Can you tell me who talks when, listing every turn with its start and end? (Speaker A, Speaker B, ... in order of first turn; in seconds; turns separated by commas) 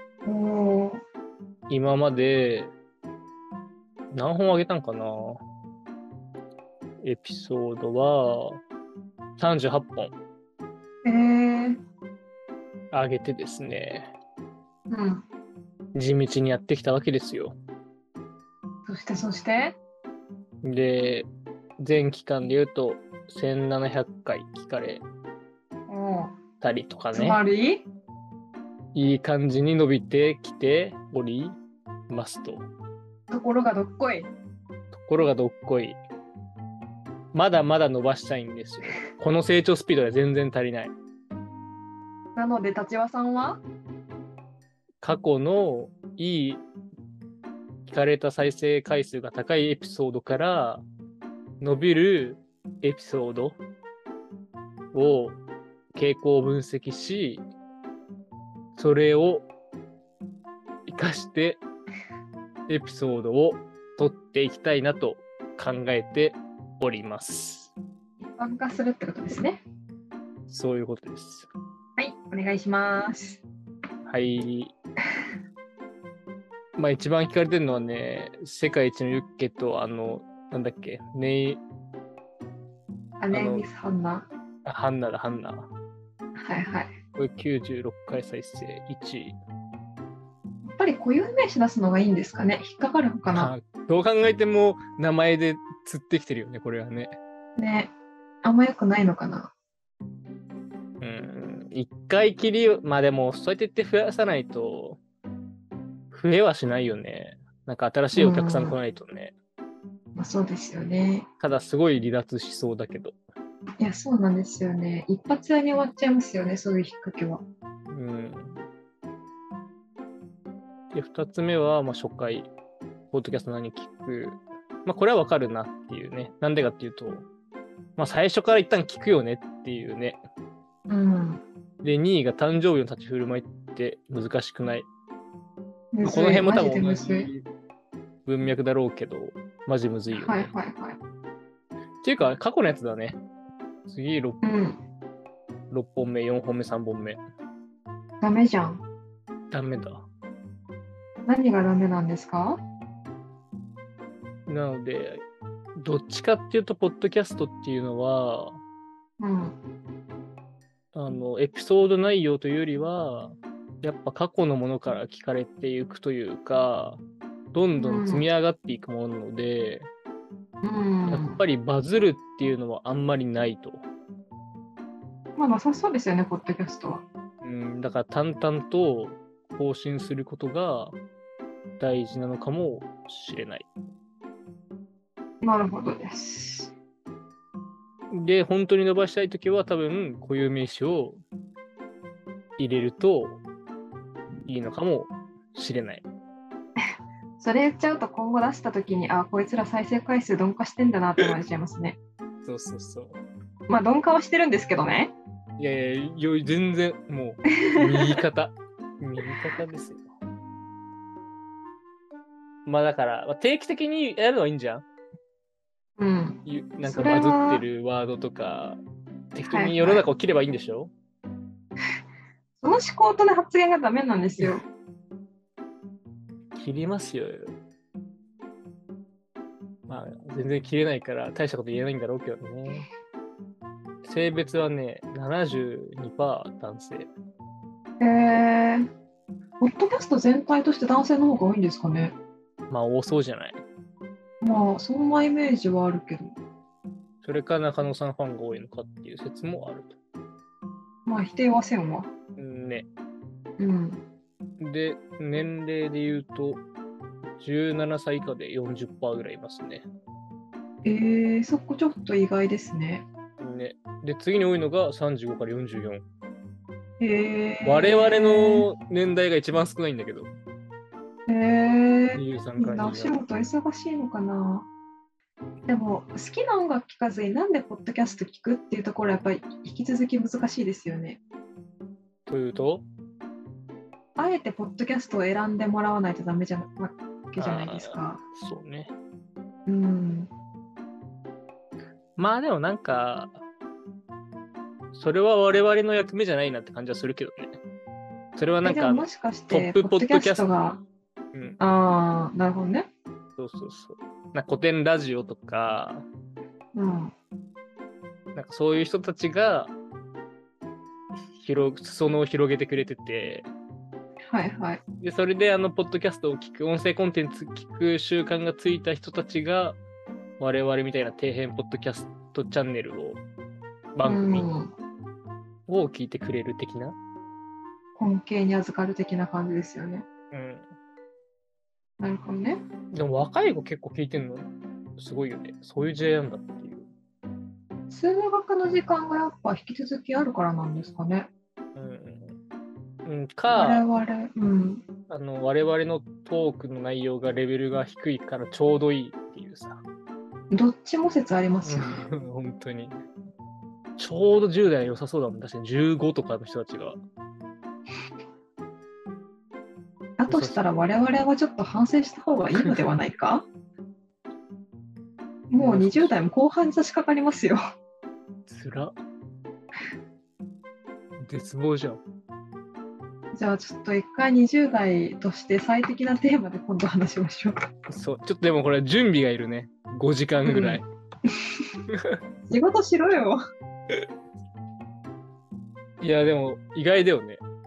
Speaker A: 0.2-1.0, Speaker B: 1.7-2.7, Speaker B: 4.1-5.4, Speaker B: 7.0-8.6, Speaker B: 9.4-10.2, Speaker A: 11.0-11.8, Speaker B: 12.9-14.1, Speaker A: 14.9-15.2, Speaker B: 15.9-17.6, Speaker A: 18.9-19.8, Speaker B: 20.6-21.3, Speaker B: 21.8-25.0, Speaker A: 25.9-26.3, Speaker B: 26.6-27.4, Speaker A: 27.1-27.9, Speaker B: 28.9-32.7, Speaker A: 33.3-34.3, Speaker B: 34.9-36.0, Speaker B: 37.3-40.9, Speaker A: 42.4-43.6, Speaker B: 45.0-46.6, Speaker B: 47.9-50.8, Speaker B: 51.6-53.6, Speaker B: 54.9-55.4, Speaker B: 55.9-57.4, Speaker B: 58.8-59.5, Speaker B: 60.9-61.6, Speaker B: 62.7-67.7, Speaker A: 68.2-69.6, Speaker B: 70.5-71.5, Speaker A: 72.0-73.4, Speaker B: 74.0-74.7, Speaker B: 76.8-81.6, Speaker A: 83.2-84.3, Speaker B: 83.3-83.7, Speaker B: 84.7-85.7, Speaker A: 86.4-87.0, Speaker B: 87.2-89.3, Speaker A: 90.6-93.5, Speaker B: 93.3-97.2, Speaker A: 97.6-97.9, Speaker A: 98.4-99.5, Speaker B: 101.0-105.0, Speaker B: 106.1-109.3, Speaker A: 108.1-108.8, Speaker A: 110.2-111.3, Speaker B: 111.4-113.2, Speaker A: 113.8-117.4, Speaker B: 117.9-118.6, Speaker B: 120.9-122.5, Speaker B: 123.1-127.3, Speaker B: 128.0-130.2, Speaker A: 130.9-131.4, Speaker B: 131.8-134.9, Speaker A: 135.9-137.3, Speaker B: 136.0-137.4, Speaker B: 138.3-140.5, Speaker A: 140.1-141.0, Speaker B: 142.0-143.2, Speaker B: 143.9-144.4, Speaker A: 144.4-144.8, Speaker B: 145.7-147.2, Speaker A: 148.2-148.8, Speaker B: 149.5-150.1, Speaker A: 151.3-152.6, Speaker B: 154.5-155.2, Speaker B: 155.8-158.6, Speaker A: 159.2-159.6, Speaker B: 160.9-167.0, Speaker B: 167.5-169.9, Speaker A: 167.8-168.3, Speaker A: 170.6-171.4, Speaker B: 171.1-173.9, Speaker A: 175.4-177.1, Speaker B: 177.4-181.0, Speaker B: 181.8-183.7, Speaker A: 185.4-186.7, Speaker B: 188.1-191.2, Speaker B: 192.6-193.4, Speaker B: 194.5-196.1, Speaker A: 197.4-202.0, Speaker B: 202.4-203.2, Speaker A: 203.7-205.2, Speaker B: 205.6-210.0, Speaker A: 207.6-208.0, Speaker B: 212.7-214.8, Speaker A: 216.0-217.6, Speaker B: 216.4-218.8, Speaker B: 219.3-220.9, Speaker A: 219.5-220.1, Speaker A: 222.6-224.6, Speaker B: 226.6-227.5, Speaker B: 229.9-232.9, Speaker B: 234.0-237.1, Speaker A: 238.0-238.9, Speaker A: 239.6-242.2, Speaker B: 242.7-243.6, Speaker A: 244.4-246.4, Speaker B: 247.2-250.0, Speaker A: 251.1-252.1, Speaker B: 252.4-252.9, Speaker A: 253.6-254.0, Speaker B: 254.6-256.6, Speaker B: 257.4-259.9, Speaker A: 260.9-263.1, Speaker B: 263.4-266.0, Speaker A: 267.0-268.6, Speaker B: 267.6-270.3, Speaker A: 271.3-274.7, Speaker B: 272.1-273.2, Speaker A: 275.7-281.2, Speaker B: 282.3-282.9, Speaker A: 284.2-288.2, Speaker B: 287.4-288.9, Speaker A: 289.7-290.3, Speaker B: 292.2-293.4, Speaker B: 294.9-297.6, Speaker B: 298.4-300.5, Speaker A: 298.6-300.8, Speaker A: 301.6-302.9, Speaker B: 303.4-306.1, Speaker A: 306.8-307.1, Speaker B: 308.4-309.7, Speaker B: 311.4-313.5, Speaker A: 314.3-314.8, Speaker B: 315.0-319.8, Speaker B: 320.4-323.2, Speaker B: 323.9-324.5, Speaker A: 324.0-324.7, Speaker B: 325.7-327.0, Speaker A: 328.0-330.1, Speaker B: 330.3-330.7, Speaker A: 332.0-332.6, Speaker B: 332.9-336.9, Speaker A: 337.9-341.3, Speaker B: 341.8-342.4, Speaker B: 343.1-343.9, Speaker A: 343.6-344.9, Speaker B: 345.1-349.8, Speaker A: 350.5-352.1, Speaker B: 351.6-353.0, Speaker B: 354.0-357.0, Speaker A: 360.2-363.5, Speaker B: 360.3-360.6, Speaker B: 362.6-362.8, Speaker A: 365.5-367.6, Speaker B: 365.6-366.2, Speaker B: 368.5-368.9, Speaker B: 371.2-372.0, Speaker A: 373.3-377.6, Speaker B: 377.9-380.8, Speaker A: 380.5-381.5, Speaker B: 381.9-382.2, Speaker A: 382.5-383.4, Speaker B: 386.0-387.4